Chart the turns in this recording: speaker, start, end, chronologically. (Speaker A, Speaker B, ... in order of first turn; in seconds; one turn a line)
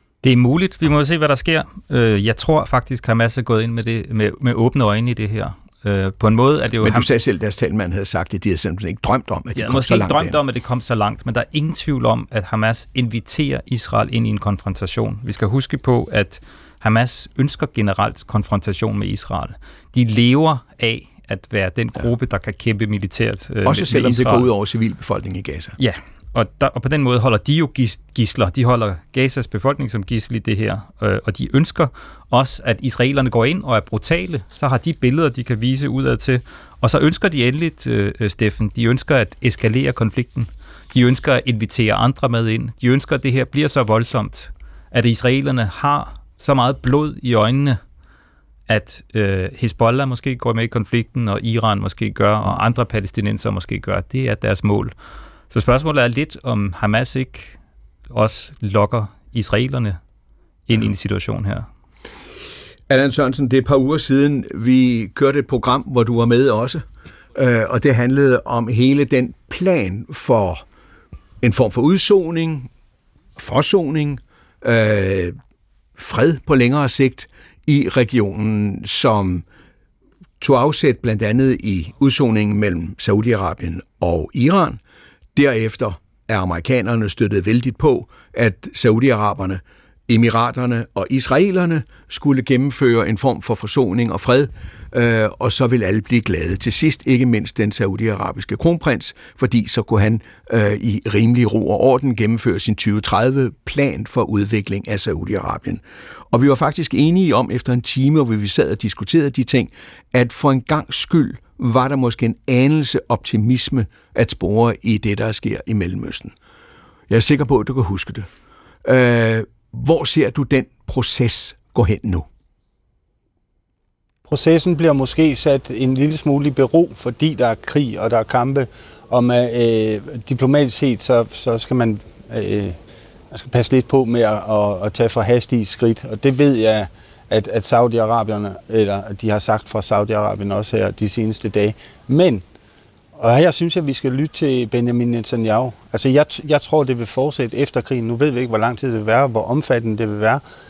Speaker A: 0.2-7.1
Speaker B: 6.8-10.4
Speaker A: 9.6-24.5
Speaker B: 23.6-25.8
Speaker A: 25.8-47.8
Speaker A: 48.7-54.9
Speaker A: 55.5-57.6
Speaker A: 58.1-60.0
Speaker A: 60.7-61.7
Speaker B: 62.9-66.8
Speaker B: 67.3-70.6
Speaker B: 71.4-72.7
Speaker B: 73.4-75.3
Speaker B: 76.0-79.4
Speaker B: 80.4-84.8
Speaker B: 85.3-116.3
Speaker B: 117.1-118.3
Speaker B: 118.8-122.3
Speaker C: 124.3-132.8
Speaker C: 133.3-142.4
Speaker C: 143.2-150.4